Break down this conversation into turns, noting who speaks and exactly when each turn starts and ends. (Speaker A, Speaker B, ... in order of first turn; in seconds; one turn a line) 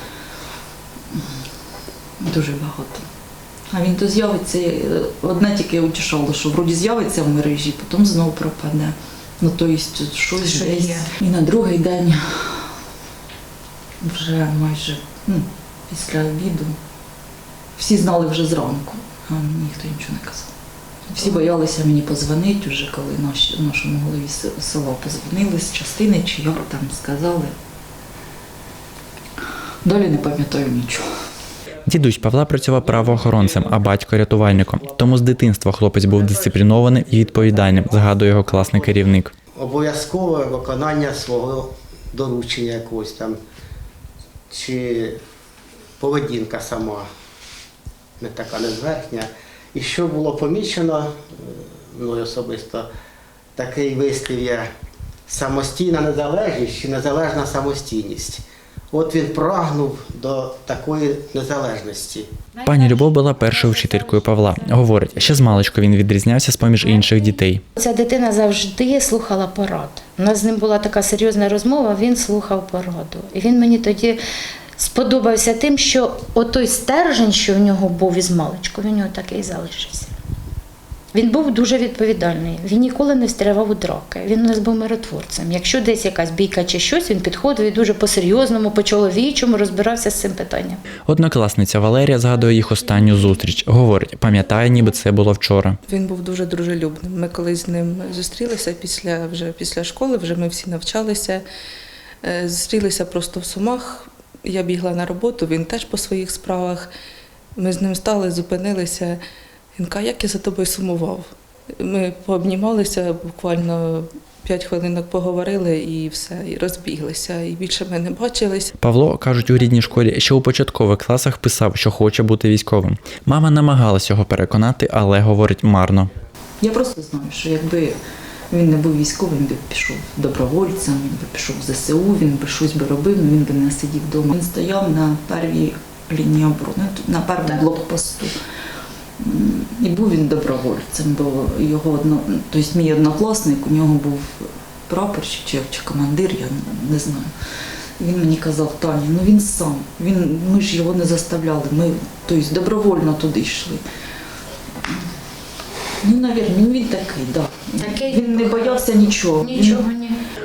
Speaker A: 2.2-3.0
Speaker A: 3.7-12.7
Speaker B: 10.4-11.1
Speaker A: 14.0-16.8
Speaker A: 17.8-20.5
Speaker A: 21.1-27.5
Speaker A: 29.8-31.1
Speaker C: 31.9-39.3
Speaker D: 39.5-43.4
Speaker D: 44.5-45.2
Speaker D: 46.0-47.0
Speaker D: 48.2-52.9
Speaker D: 53.5-54.7
Speaker D: 55.3-62.3
Speaker B: 62.5-64.7
Speaker C: 62.6-67.6
Speaker B: 66.8-67.2
Speaker B: 67.8-74.2
Speaker B: 74.8-80.1
Speaker B: 81.1-90.8
Speaker C: 91.1-95.8
Speaker E: 95.9-101.4
Speaker E: 102.2-106.9
Speaker E: 107.5-109.2
Speaker E: 109.7-118.7
Speaker C: 118.8-126.1
Speaker A: 126.6-128.0
Speaker A: 128.5-138.3
Speaker A: 139.2-147.3
Speaker A: 148.0-153.8
Speaker A: 156.0-159.8
Speaker B: 157.8-158.8
Speaker B: 159.4-160.2